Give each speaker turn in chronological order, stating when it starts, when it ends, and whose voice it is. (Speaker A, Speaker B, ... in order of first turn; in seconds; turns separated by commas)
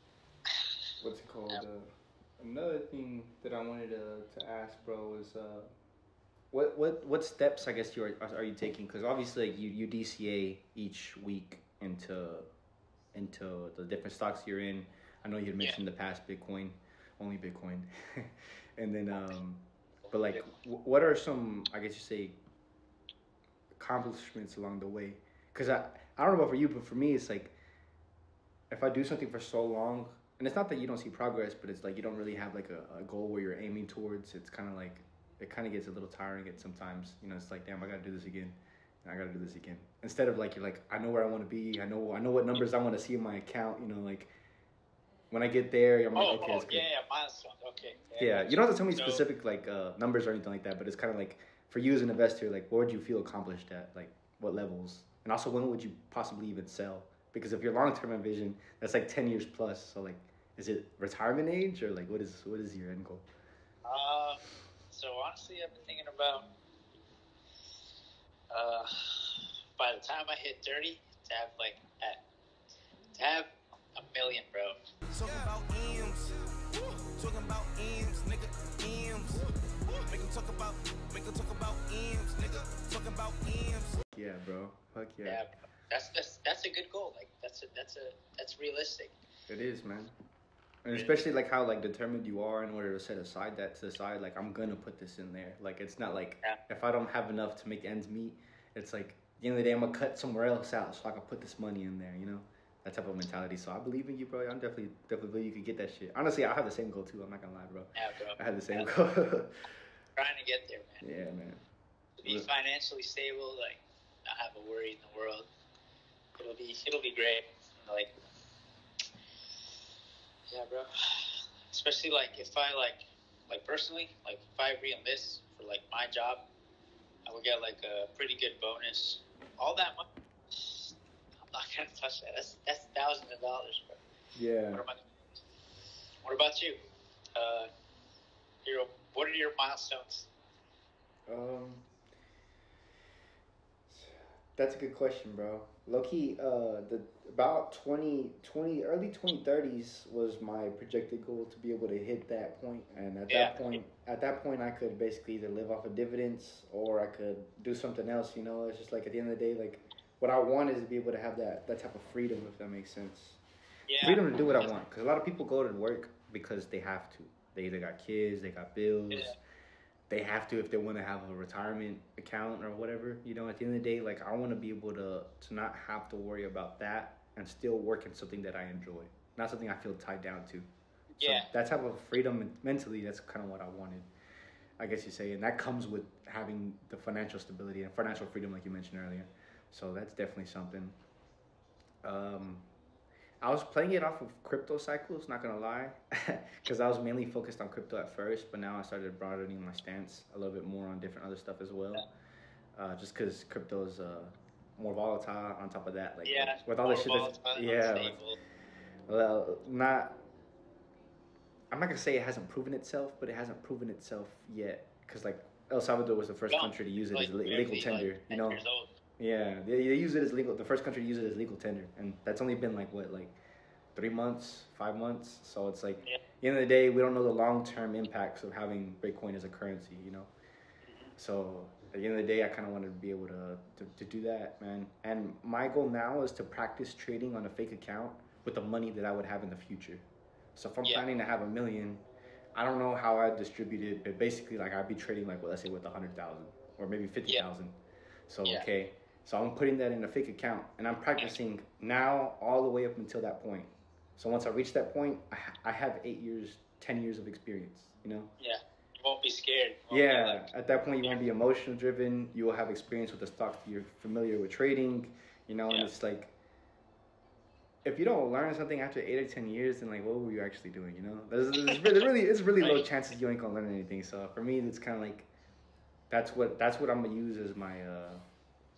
Speaker A: 0.5-0.7, Speaker B: 1.0-5.7, Speaker B: 6.5-12.5, Speaker B: 13.1-22.4, Speaker B: 23.8-27.6, Speaker B: 28.7-44.3, Speaker B: 45.3-46.9, Speaker A: 46.1-49.2, Speaker B: 48.2-63.3, Speaker A: 63.9-66.5, Speaker A: 68.5-72.2, Speaker A: 73.1-74.8, Speaker C: 75.1-84.0, Speaker B: 84.1-85.4, Speaker A: 85.2-89.2, Speaker B: 89.5-90.1, Speaker B: 90.8-109.7, Speaker A: 90.9-91.2, Speaker A: 108.0-108.9, Speaker A: 110.2-111.0, Speaker B: 111.0-111.7, Speaker A: 112.2-115.5, Speaker B: 112.2-112.5, Speaker A: 116.4-118.2, Speaker A: 120.5-126.4, Speaker A: 127.3-134.0, Speaker B: 134.3-134.9, Speaker A: 134.7-135.0, Speaker A: 136.2-136.8, Speaker A: 137.3-137.7, Speaker A: 138.7-140.3, Speaker B: 141.3-141.9, Speaker B: 143.9-163.4, Speaker A: 153.3-153.8, Speaker A: 163.9-164.6, Speaker B: 164.0-169.4, Speaker A: 169.1-169.4, Speaker B: 170.1-180.7, Speaker A: 181.2-181.5, Speaker B: 181.2-184.1, Speaker B: 184.8-191.0, Speaker B: 192.0-192.7, Speaker B: 193.4-202.1, Speaker B: 202.8-208.2, Speaker A: 206.2-208.4, Speaker B: 209.1-210.2, Speaker B: 211.7-218.6, Speaker A: 216.5-218.9, Speaker B: 219.2-223.4, Speaker B: 223.9-230.3, Speaker A: 230.8-231.1, Speaker B: 231.2-240.0, Speaker B: 240.6-247.8, Speaker B: 248.3-258.3, Speaker A: 258.4-260.5, Speaker B: 259.9-266.3, Speaker B: 267.9-275.3, Speaker A: 272.6-272.9, Speaker B: 276.1-278.2